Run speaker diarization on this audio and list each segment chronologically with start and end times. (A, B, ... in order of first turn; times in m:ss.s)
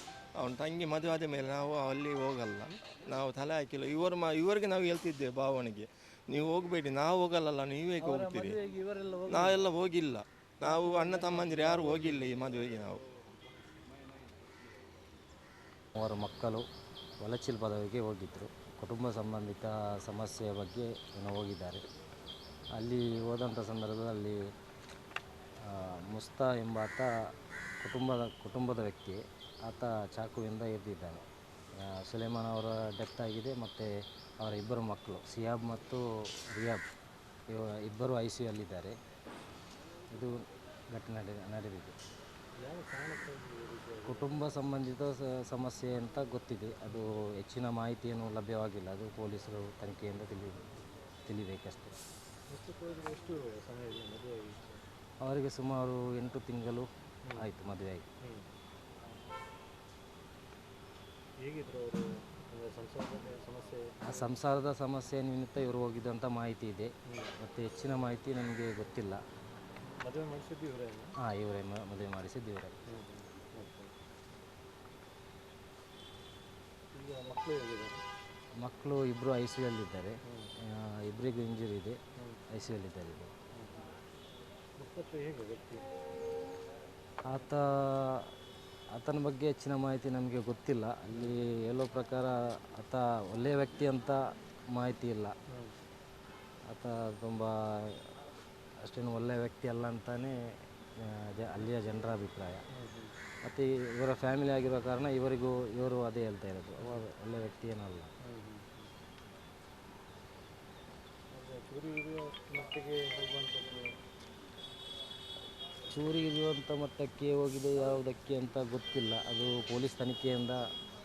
0:00.4-0:08.6 A
0:08.0-0:09.6 B
0:09.3-0:13.0 A
0:10.6-0:12.3 B
0:16.0-0:16.6 C
0:17.2-0:21.8 C
0:22.7-0:24.4 C
0:25.6-0:27.1 C
0:27.8-0:31.2 C
0:31.8-0:33.9 C
0:34.4-0:36.8 C
0:37.5-0:38.9 C
0:40.1-0:40.4 C
0:40.9-0:42.0 C
0:42.6-0:44.3 D
0:44.0-0:50.7 C
0:51.2-0:51.9 C
0:52.5-0:54.8 D
0:55.2-0:58.0 C
1:01.4-1:04.3 D
1:04.0-1:09.2 C
1:10.0-1:11.1 D
1:11.2-1:12.7 C
1:12.9-1:13.9 D
1:16.9-1:18.0 D
1:18.6-1:20.1 C
1:21.0-1:22.0 C
1:22.5-1:23.3 C
1:23.6-1:23.9 D
1:24.8-1:25.8 D
1:27.3-1:28.2 C
1:28.9-1:34.2 C
1:31.1-1:31.4 D
1:34.7-1:35.3 C
1:36.7-1:38.1 C
1:38.8-1:40.3 C
1:41.0-1:42.6 C
1:42.7-1:43.1 D
1:43.4-1:48.1 C
1:48.2-1:48.9 D
1:51.3-1:53.9 D
1:55.9-2:00.6 C